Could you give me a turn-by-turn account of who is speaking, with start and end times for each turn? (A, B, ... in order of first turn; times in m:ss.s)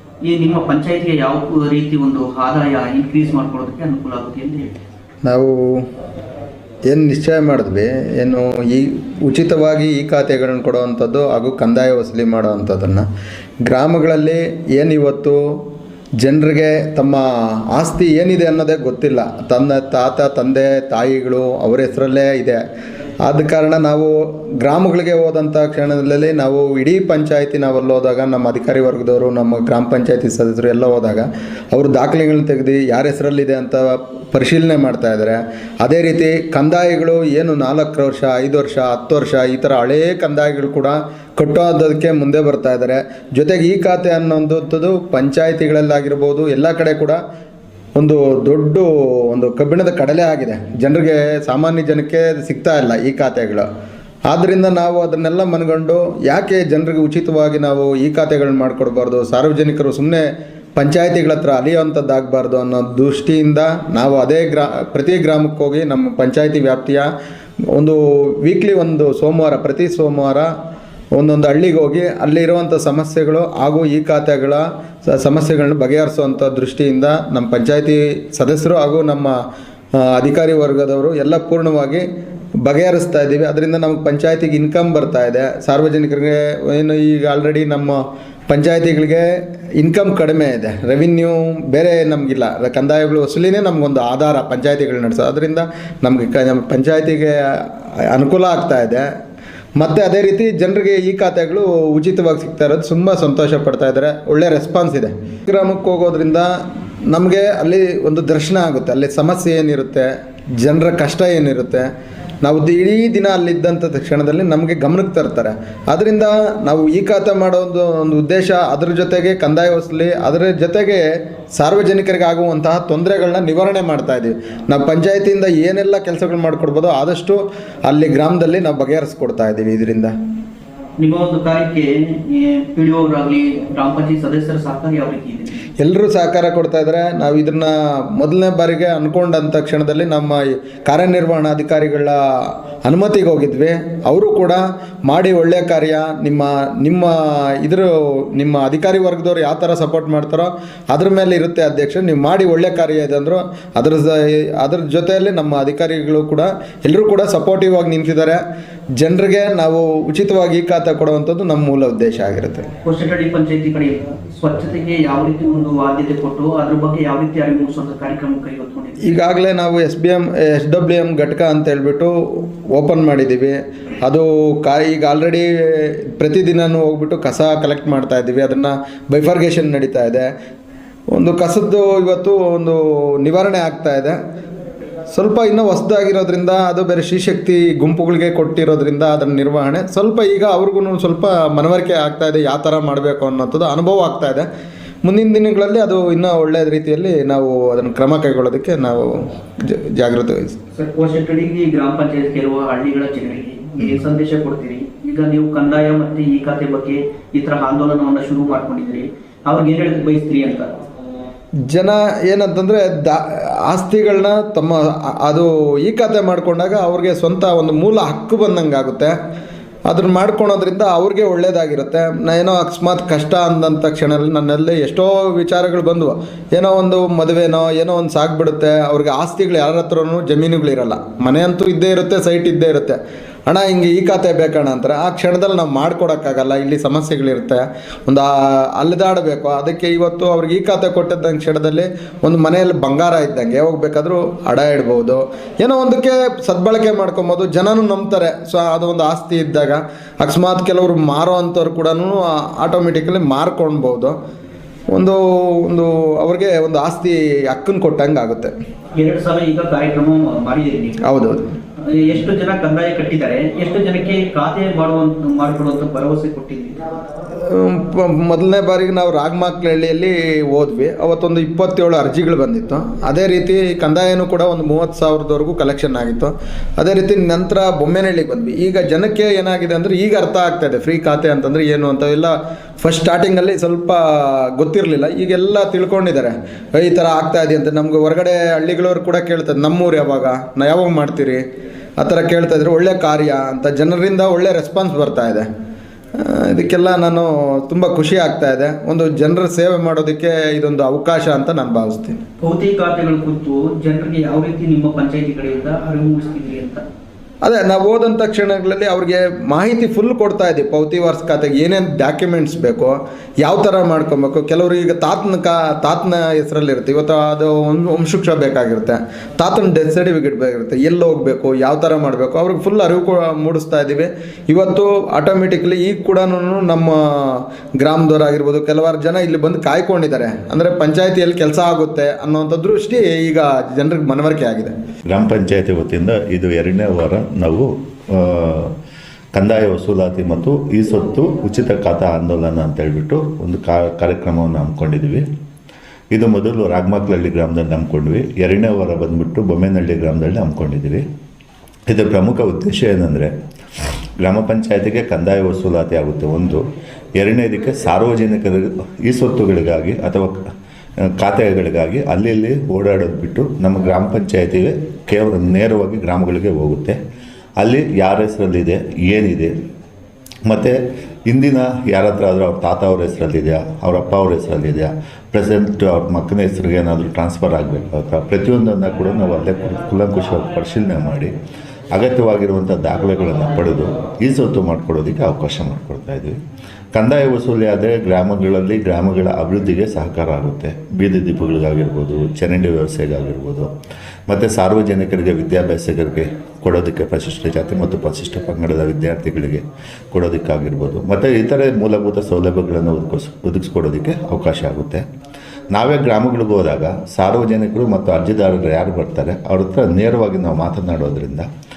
0:00.2-0:04.7 A
0:05.2-0:05.8 B
0:06.9-0:13.0 B
0:13.6-0:15.4 B
0:16.2-0:22.6 B
0:23.2-0:47.2 B
0:47.9-0:53.6 B
0:54.3-1:07.0 B
1:07.7-1:10.5 B
1:11.1-1:19.3 B
1:20.0-1:22.0 B
1:22.6-1:29.2 B
1:29.8-1:39.0 B
1:39.8-1:46.5 B
1:47.1-1:50.1 B
1:50.6-1:51.9 B
1:52.4-2:01.0 B
2:01.6-2:10.1 B
2:11.0-2:15.6 A
2:15.8-2:38.4 B
2:39.0-2:42.6 B
2:42.8-2:49.2 A
2:49.0-3:00.3 B
3:01.1-3:04.1 B
3:05.1-3:14.4 B
3:15.0-3:20.6 B
3:20.7-3:30.7 A
3:31.7-3:39.1 B
3:39.8-4:14.1 B
4:14.9-4:18.5 B
4:18.9-4:21.0 A
4:21.0-4:21.5 B
4:21.8-4:26.8 A
4:27.4-4:51.4 B
4:52.0-4:55.4 B
4:56.2-5:02.2 B
5:02.4-5:06.8 A
5:07.4-5:34.7 B
5:35.1-5:38.7 C
5:39.3-5:45.2 C
5:46.1-5:51.0 C
5:51.9-5:53.3 C
5:54.2-5:56.6 C
5:57.2-6:00.4 C
6:01.0-6:07.0 C
6:07.6-6:09.5 C
6:10.4-6:10.8 C
6:11.3-6:21.3 C
6:21.9-6:26.4 C
6:26.9-6:33.7 C
6:34.3-6:45.0 C
6:45.7-6:51.5 C